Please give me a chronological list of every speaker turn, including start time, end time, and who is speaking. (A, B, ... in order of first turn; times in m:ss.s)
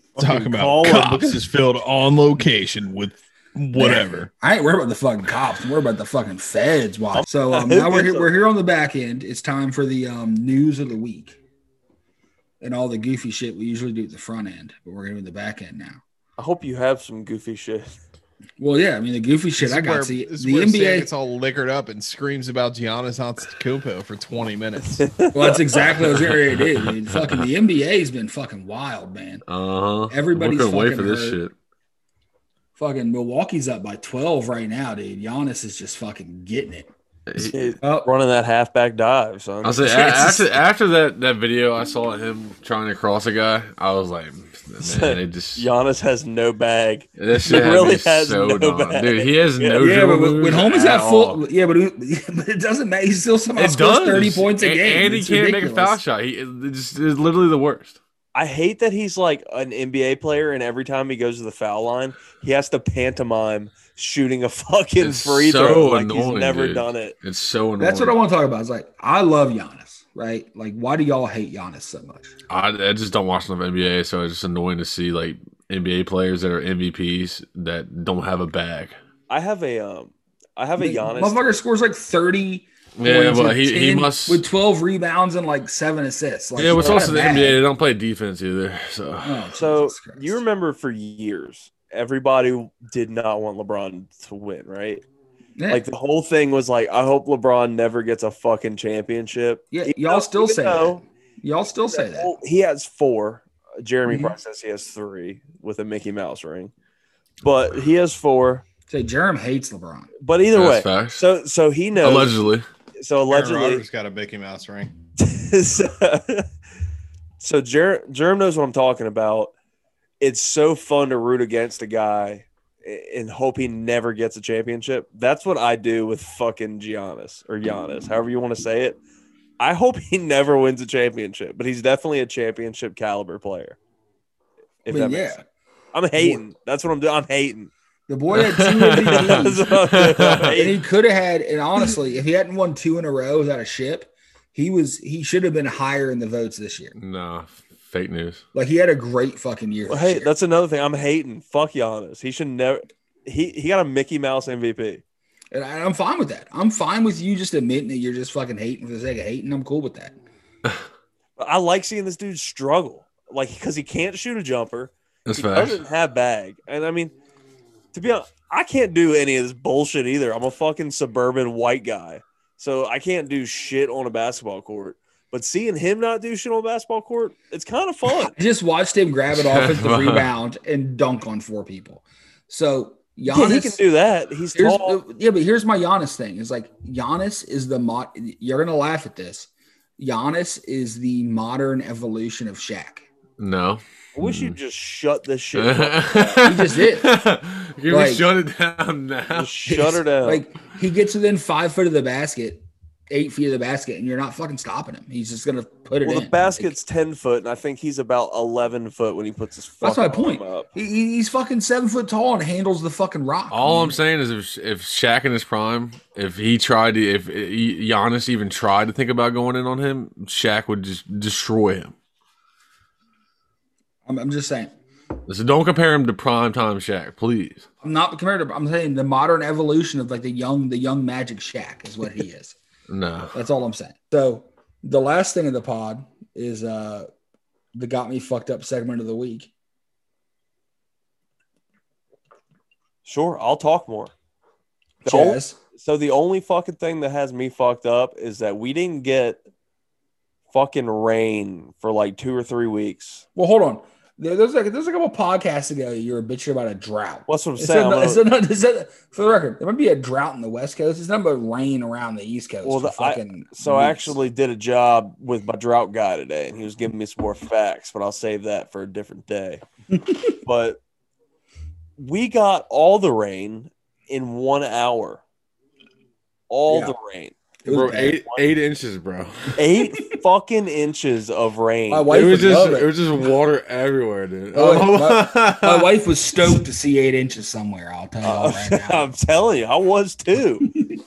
0:00.2-0:01.4 A
0:00.2-0:04.3 B
0:03.8-0:11.4 C
0:07.1-0:08.3 A
0:12.6-0:16.0 C
0:16.4-0:18.0 A
0:18.6-0:21.1 C
0:19.6-0:25.1 B
0:24.9-0:25.6 A
0:25.3-0:29.4 C
0:26.8-0:27.5 D
0:29.5-0:31.5 D
0:30.1-0:31.4 C
0:32.8-0:36.9 C
0:37.3-0:37.7 D
0:37.4-0:40.5 A
0:37.8-0:38.1 C
0:39.6-0:45.7 D
0:44.8-0:51.4 A
0:47.2-0:51.4 D
0:49.8-0:56.0 C
0:53.6-0:58.0 D
0:58.3-1:07.2 A
1:05.0-1:08.2 D
1:07.8-1:12.3 C
1:12.5-1:19.0 D
1:19.3-1:21.4 A
1:20.8-1:27.6 C
1:23.0-1:24.4 D
1:26.6-1:29.6 D
1:26.8-1:27.1 A
1:29.2-1:30.4 C
1:29.6-1:35.0 A
1:35.6-1:35.8 C
1:35.7-1:41.0 A
1:39.7-1:42.3 C
1:41.9-1:46.7 A
1:44.1-1:44.4 C
1:47.4-1:48.6 A
1:48.9-1:50.1 C
1:50.2-1:52.4 A
1:50.5-1:51.2 D
1:52.0-1:52.7 D
1:53.0-1:53.8 A
1:53.3-1:54.9 B
1:55.2-1:56.5 A
1:57.4-1:59.5 A
2:00.2-2:09.0 A
2:09.6-2:13.8 A
2:14.9-2:15.4 C
2:14.9-2:15.4 A
2:15.9-2:17.7 A
2:16.2-2:16.4 C
2:18.1-2:19.8 C
2:18.3-2:20.5 D
2:19.1-2:20.8 A
2:20.5-2:27.0 C
2:27.0-2:28.4 D
2:28.5-2:30.3 C
2:29.9-2:35.0 A
2:35.5-2:40.2 C
2:41.4-2:47.2 A
2:45.3-2:45.8 D
2:47.9-2:58.4 A
2:58.3-3:03.8 C
2:59.3-3:00.3 D
3:03.3-3:05.0 A
3:04.5-3:13.1 C
3:13.4-3:14.6 D
3:14.2-3:16.4 A
3:15.6-3:19.6 D
3:16.4-3:17.2 C
3:17.9-3:18.3 C
3:19.3-3:20.4 A
3:19.7-3:26.8 C
3:26.0-3:30.7 A
3:29.8-3:34.0 C
3:33.5-3:41.9 D
3:44.1-3:44.7 C
3:45.3-3:47.7 D
3:47.8-3:52.6 C
3:52.9-3:53.4 D
3:53.3-3:57.1 C
3:57.8-3:59.5 C
4:03.0-4:04.1 A
4:05.0-4:05.6 C
4:05.0-4:09.4 A
4:10.5-4:13.2 A
4:13.4-4:24.2 C
4:17.3-4:18.2 A
4:22.6-4:29.6 A
4:30.4-4:30.8 A
4:32.0-4:35.2 A
4:36.5-4:38.5 A
4:36.7-4:36.9 C
4:37.6-4:38.2 C
4:37.7-4:39.6 D
4:39.6-4:42.1 A
4:41.9-4:43.0 C
4:42.1-4:46.6 D
4:44.5-4:49.1 C
4:48.2-4:50.7 A